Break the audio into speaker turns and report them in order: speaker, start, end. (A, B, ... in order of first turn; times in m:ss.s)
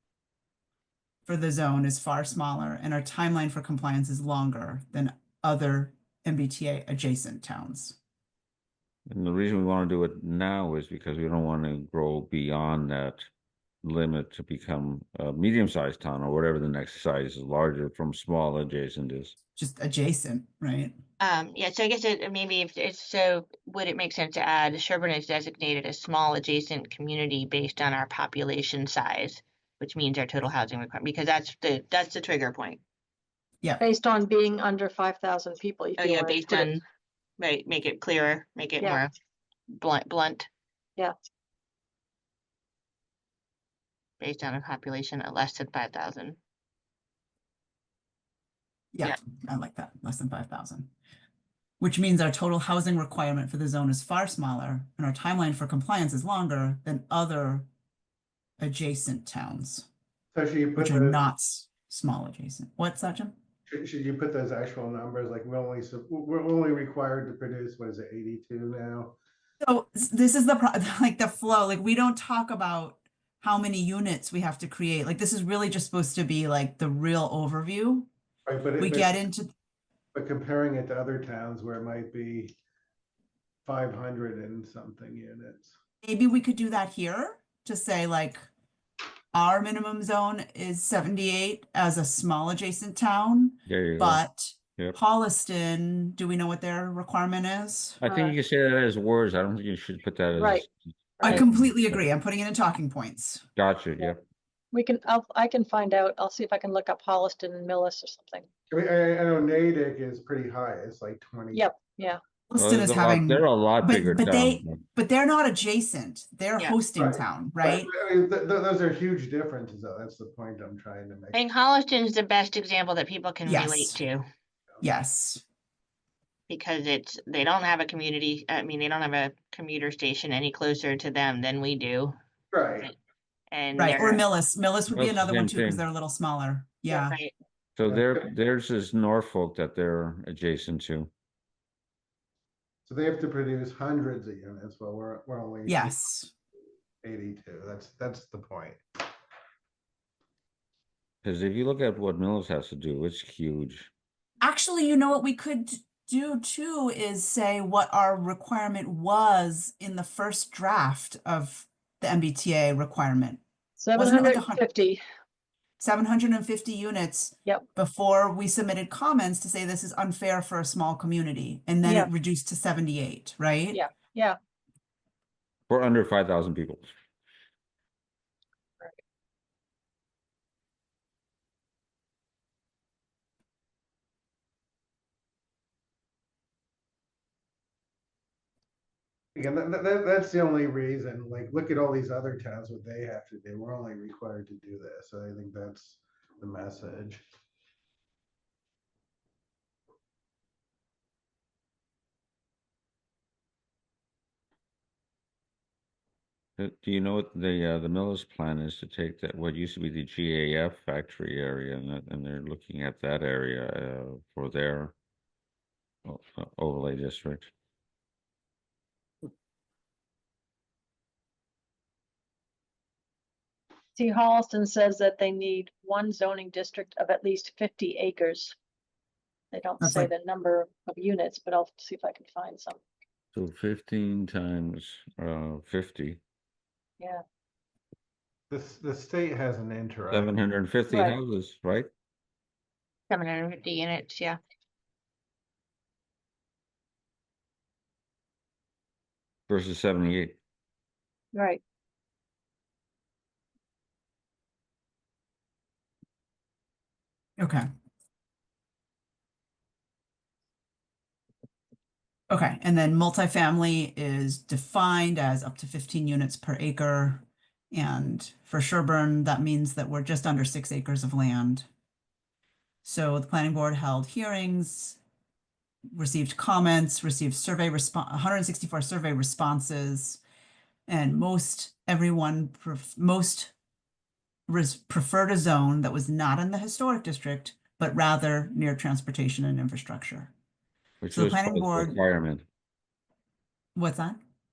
0:01.2-0:08.0 A
0:09.1-0:13.3 B
0:13.8-0:19.4 B
0:19.6-0:21.0 A
0:21.2-0:32.8 C
0:33.8-0:36.8 D
0:36.0-0:36.8 C
0:37.4-0:39.1 C
0:38.8-0:39.0 D
0:39.7-0:40.5 C
0:44.2-0:46.4 C
0:48.9-0:50.9 A
0:51.8-0:57.7 A
0:58.6-0:59.9 A
1:00.3-1:01.3 E
1:00.8-1:03.3 A
1:03.7-1:09.2 E
1:09.6-1:18.1 A
1:18.4-1:19.2 E
1:18.8-1:19.5 A
1:20.1-1:22.6 E
1:23.6-1:25.7 E
1:26.0-1:28.5 A
1:29.3-1:38.0 A
1:33.7-1:34.2 B
1:38.0-1:42.0 B
1:38.1-1:38.3 D
1:40.4-1:40.6 D
1:41.2-1:41.4 D
1:41.2-1:43.4 A
1:43.6-1:44.2 B
1:44.7-1:48.5 D
1:48.7-1:51.8 E
1:51.5-1:52.2 D
1:52.5-1:57.9 A
1:52.6-1:54.8 B
1:56.9-2:01.5 E
2:01.3-2:04.2 C
2:03.4-2:04.0 A
2:04.8-2:05.4 A
2:06.5-2:12.2 C
2:12.5-2:12.9 E
2:13.5-2:14.2 C
2:13.8-2:17.2 A
2:14.9-2:15.8 B
2:16.9-2:17.3 C
2:17.8-2:21.1 B
2:17.9-2:18.2 E
2:22.9-2:26.0 E
2:25.7-2:26.3 A
2:27.0-2:28.8 E
2:31.2-2:33.9 B
2:34.4-2:43.4 A
2:43.8-2:45.0 D
2:43.9-2:44.6 A
2:45.8-2:53.8 A
2:51.8-2:52.1 D
2:53.7-2:54.4 D
2:55.7-2:56.9 B
3:09.3-3:17.2 E
3:26.6-3:34.9 B
3:36.0-3:37.5 B
3:44.0-3:48.6 D
3:49.5-3:52.8 D
3:49.8-3:50.1 A
3:53.3-3:56.2 B
3:58.5-4:00.3 E
4:00.1-4:01.9 B
4:00.9-4:01.2 D
4:03.1-4:04.4 C
4:09.5-4:10.4 B
4:11.3-4:11.6 D
4:17.4-4:17.7 A
4:22.3-4:31.6 A
4:32.8-4:35.0 A
4:35.9-4:40.2 A
4:40.9-4:43.5 A
4:44.5-4:50.3 A
4:51.0-4:52.4 B
4:51.1-4:52.0 A
4:53.8-4:54.2 A